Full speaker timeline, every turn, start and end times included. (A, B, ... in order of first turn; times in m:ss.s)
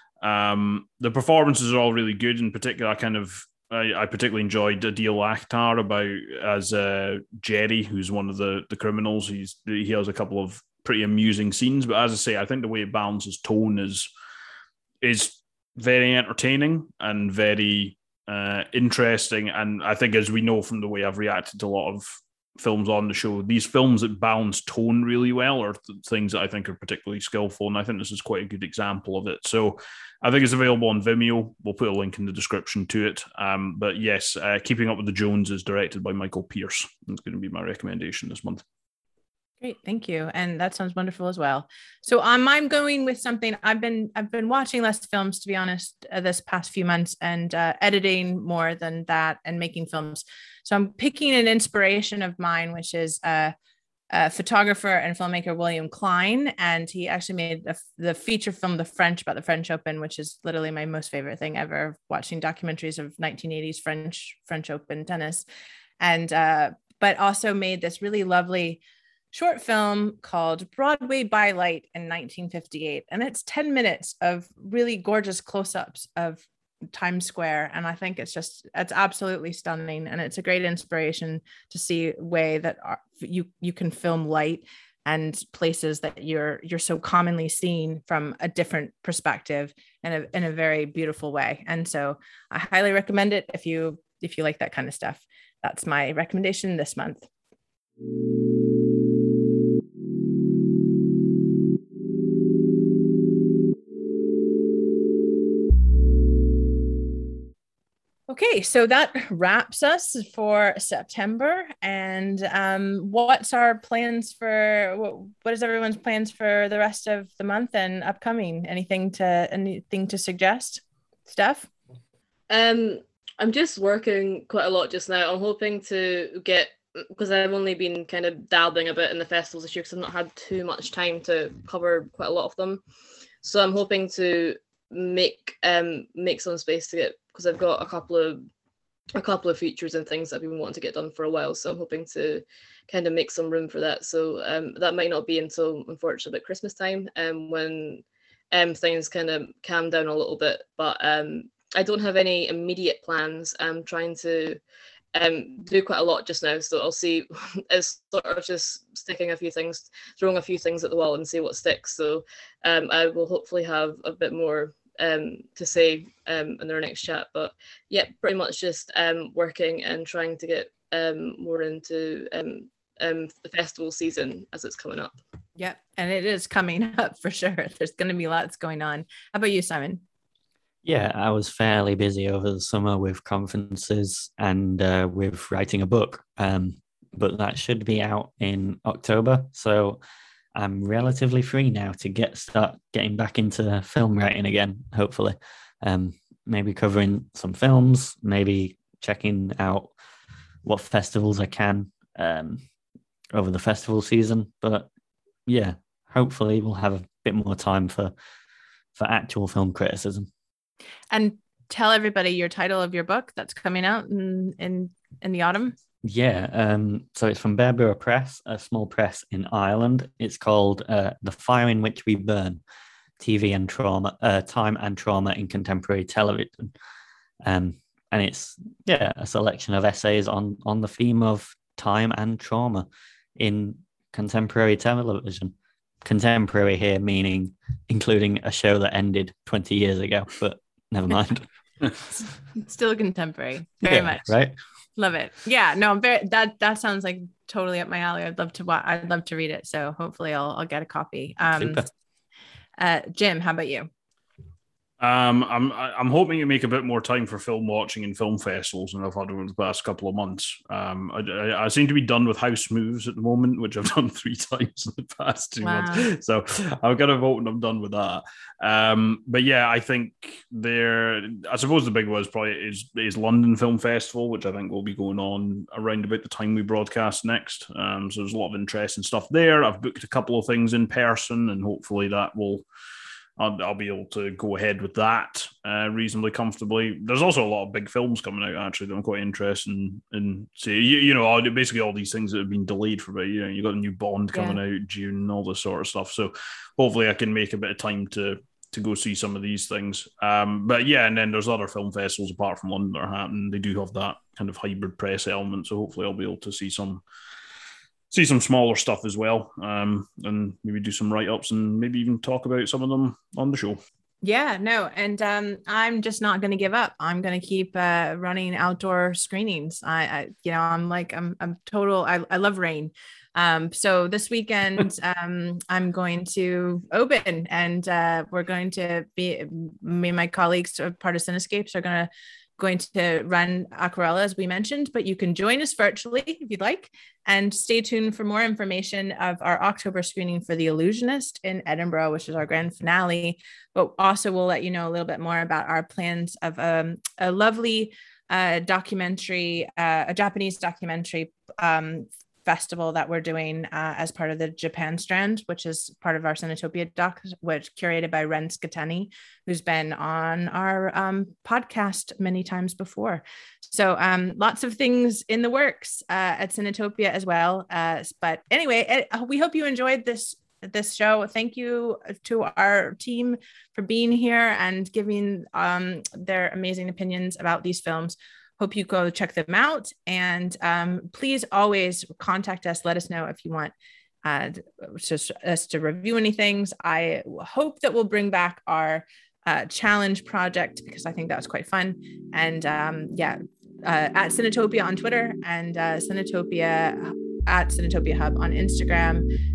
0:00.2-0:14.1 A
0:15.0-0:38.6 A
0:39.6-0:53.5 B
0:54.1-1:05.4 B
1:06.0-1:08.8 B
1:09.3-1:37.3 B
1:48.3-2:01.7 B
2:02.5-2:12.8 C
2:13.4-2:18.4 C
2:19.2-2:34.6 C
2:35.1-2:55.1 C
2:55.6-3:00.0 B
3:00.8-3:10.0 D
3:10.6-3:19.9 D
3:20.6-3:22.6 D
3:23.3-3:24.9 D
3:25.4-3:28.1 D
3:29.0-3:30.3 D
3:31.1-3:35.8 B
3:36.0-3:42.6 D
3:43.2-3:46.7 D
3:47.4-4:01.5 D
4:02.6-4:04.3 B
4:03.8-4:04.5 D
4:05.0-4:11.8 B
4:11.5-4:11.9 D
4:12.8-4:13.9 B
4:15.0-4:42.6 A
4:25.6-4:26.1 B
4:43.4-5:07.0 A
4:54.3-4:54.6 B
5:08.1-5:13.8 A
5:14.2-6:23.7 B
6:24.2-6:39.2 B